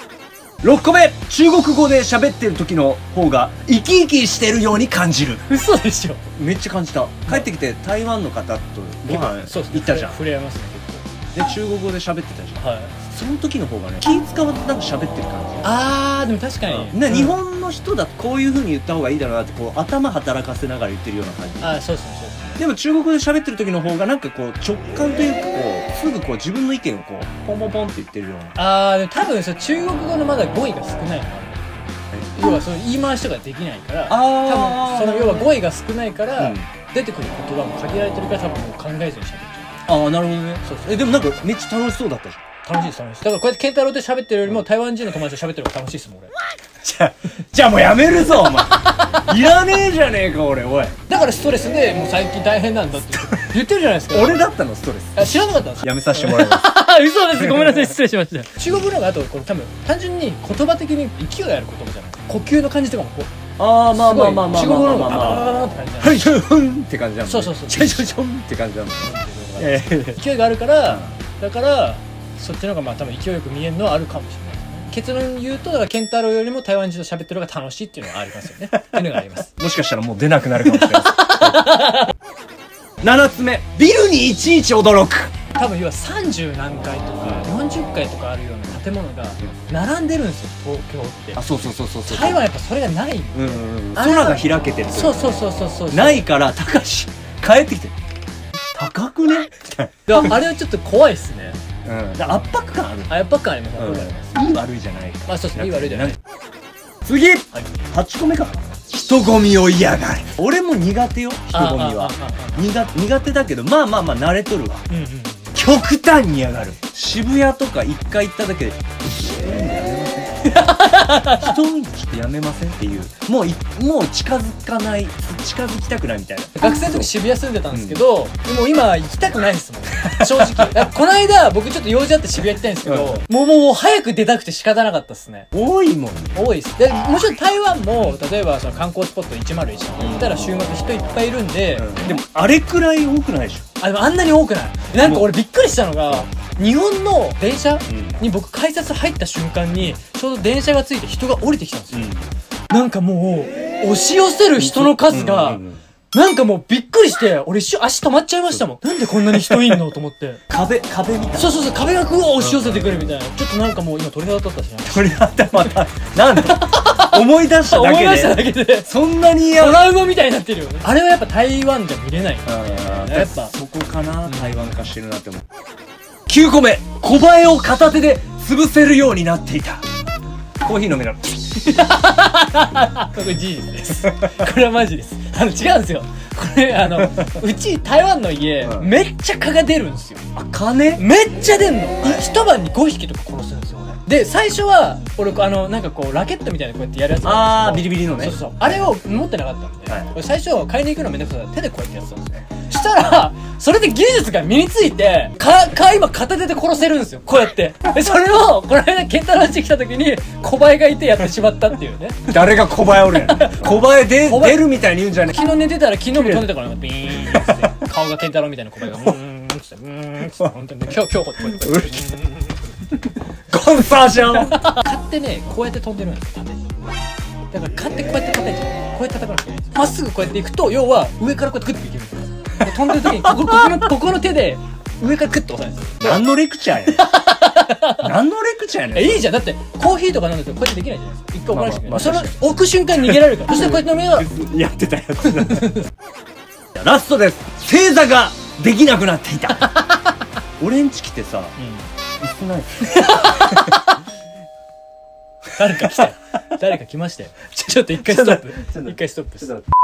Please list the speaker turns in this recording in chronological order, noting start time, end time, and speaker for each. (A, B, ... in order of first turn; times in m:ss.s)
0:00.6-0:05.4 A
0:05.4-0:06.2 B
0:06.3-0:10.2 A
0:09.1-0:11.1 B
0:11.3-0:15.8 A
0:12.6-0:13.0 B
0:15.6-0:17.4 B
0:16.7-0:21.7 A
0:21.6-0:22.6 B
0:22.6-0:28.6 A
0:28.5-0:39.8 B
0:32.1-0:32.6 A
0:34.1-0:35.5 A
0:36.4-0:36.7 A
0:39.8-0:42.4 A
0:40.6-0:41.3 B
0:42.6-0:46.3 B
0:46.8-0:51.0 A
0:48.4-0:49.4 B
0:51.1-0:54.5 B
0:53.3-0:53.6 A
0:54.1-0:56.7 A
0:55.1-1:03.3 B
0:57.4-0:57.9 A
1:03.6-1:05.5 A
1:03.9-1:06.3 B
1:06.0-1:10.2 A
1:07.2-1:08.3 B
1:09.0-1:19.5 B
1:10.8-1:11.2 A
1:19.6-1:21.8 A
1:20.6-1:22.1 B
1:23.0-1:25.3 A
1:25.5-1:31.4 B
1:27.2-1:27.5 A
1:31.4-1:32.4 A
1:32.0-1:36.3 B
1:33.3-1:38.0 A
1:38.7-1:40.3 A
1:40.0-1:41.6 B
1:41.8-1:43.2 A
1:43.1-1:44.3 B
1:43.8-1:46.2 A
1:45.3-1:46.2 B
1:47.0-1:54.8 A
1:51.5-1:52.6 B
1:54.9-1:55.5 B
1:55.5-2:07.1 A
2:00.4-2:01.6 B
2:06.6-2:15.5 B
2:07.7-2:08.0 A
2:10.3-2:10.8 A
2:12.8-2:13.2 A
2:15.5-2:16.3 A
2:16.3-2:22.0 B
2:20.0-2:20.7 A
2:21.7-2:23.7 A
2:23.8-2:32.1 B
2:25.0-2:25.3 A
2:27.9-2:28.2 A
2:31.9-2:32.3 A
2:32.7-2:40.4 B
2:34.6-2:35.8 A
2:38.5-2:39.9 A
2:40.5-2:41.6 A
2:41.3-2:45.5 B
2:42.4-2:43.1 A
2:44.8-2:49.9 A
2:46.3-2:48.9 B
2:49.5-2:53.5 B
2:52.4-2:55.4 A
2:54.2-2:54.6 B
2:56.3-2:59.8 A
3:00.6-3:01.4 A
3:01.6-3:10.2 B
3:08.6-3:08.9 A
3:10.3-3:11.0 A
3:11.0-3:32.3 B
3:12.0-3:12.3 A
3:17.2-3:18.4 A
3:19.9-3:20.1 A
3:32.2-3:35.4 A
3:33.1-3:34.6 B
3:35.3-3:42.2 B
3:36.1-3:36.6 A
3:37.1-3:37.7 A
3:41.4-3:42.2 A
3:43.5-3:44.7 A
3:44.4-3:46.6 B
3:47.5-3:56.2 B
3:52.6-3:53.9 A
3:56.0-3:57.1 A
3:56.8-3:58.1 B
3:57.9-3:59.3 A
3:58.9-4:04.3 B
4:01.5-4:02.4 A
4:03.0-4:05.8 A
4:06.8-4:09.7 A
4:09.6-4:10.0 B
4:10.6-4:11.6 A
4:11.6-4:11.9 B
4:12.2-4:13.7 A
4:12.9-4:13.9 B
4:15.5-4:19.6 B
4:18.0-4:19.6 A